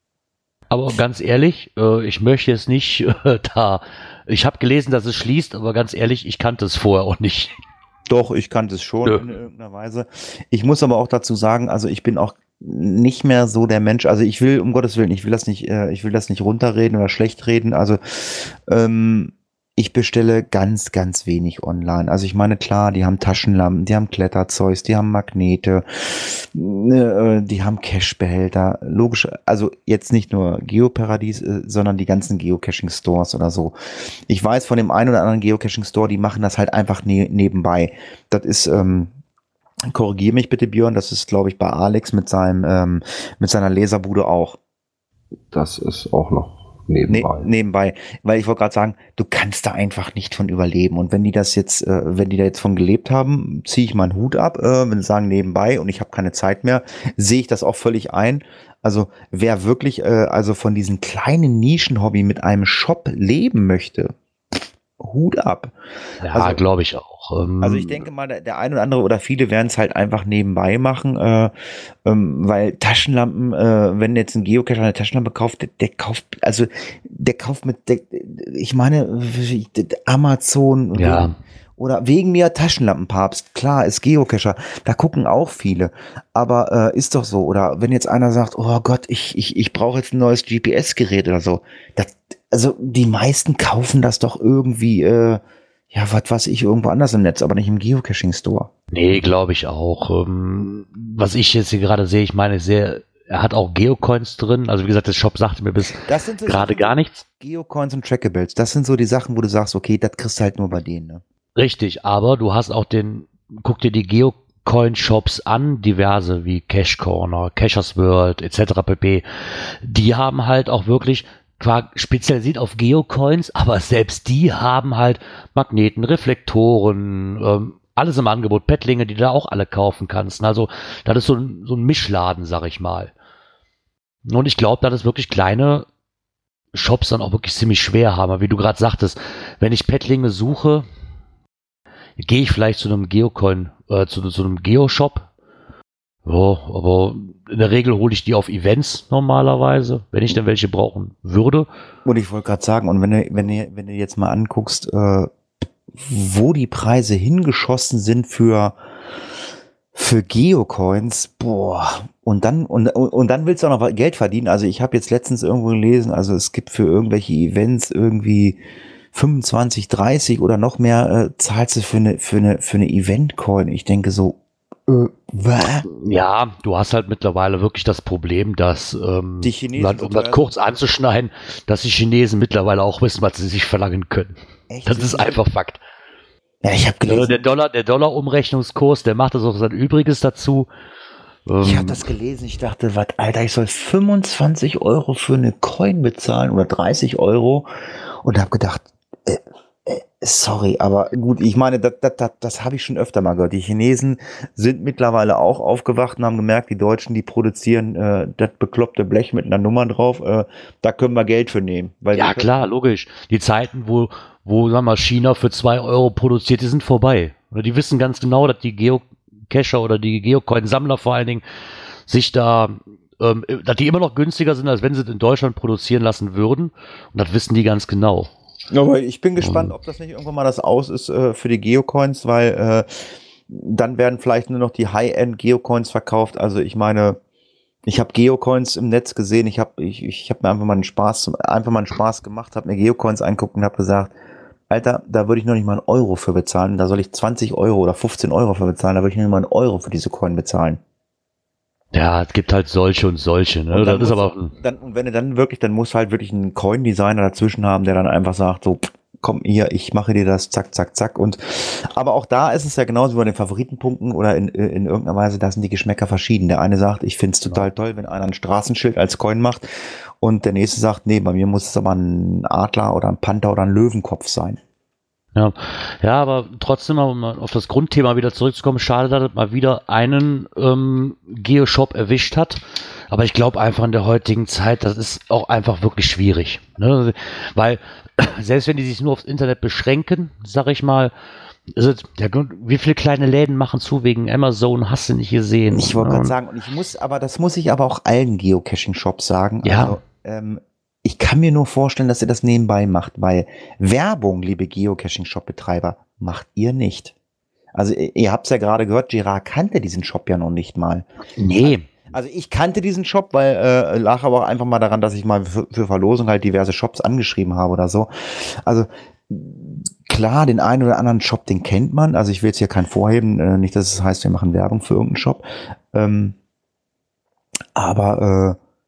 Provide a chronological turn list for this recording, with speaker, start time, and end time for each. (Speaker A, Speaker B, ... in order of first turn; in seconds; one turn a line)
Speaker A: 0.7-7.5
Speaker B: 8.1-33.7
Speaker B: 34.3-39.1
Speaker B: 39.9-44.6
Speaker C: 45.5-47.5
Speaker B: 47.1-64.2
Speaker B: 65.0-65.7
Speaker A: 66.2-68.0
Speaker B: 66.3-66.6
Speaker B: 67.6-71.5
Speaker B: 72.0-95.4
Speaker A: 80.9-81.3
Speaker B: 95.9-98.7
Speaker A: 98.9-107.2
Speaker B: 106.0-111.2
Speaker A: 111.5-133.1
Speaker A: 134.2-135.8
Speaker A: 136.7-140.9
Speaker A: 142.2-145.3
Speaker A: 146.2-151.7
Speaker B: 152.0-155.3
Speaker B: 155.9-158.8
Speaker B: 159.9-168.6
Speaker B: 169.1-175.9
Speaker A: 175.9-184.3
Speaker B: 179.4-180.5
Speaker B: 184.7-185.4
Speaker A: 184.8-185.8
Speaker B: 186.6-187.4
Speaker A: 187.1-190.7
Speaker A: 191.4-192.0
Speaker B: 191.6-197.7
Speaker B: 198.2-212.5
Speaker A: 212.1-221.4
Speaker A: 222.1-228.3
Speaker B: 228.7-232.9
Speaker A: 229.4-229.7
Speaker B: 233.5-237.2
Speaker B: 237.8-244.1
Speaker B: 244.7-250.8
Speaker A: 251.9-254.5
Speaker B: 253.7-269.6
Speaker B: 270.2-274.6
Speaker A: 275.3-291.1
Speaker A: 291.7-296.3
Speaker B: 295.7-307.1
Speaker A: 299.6-300.0
Speaker B: 307.7-311.1
Speaker A: 311.4-311.9
Speaker B: 311.6-326.4
Speaker B: 327.7-328.6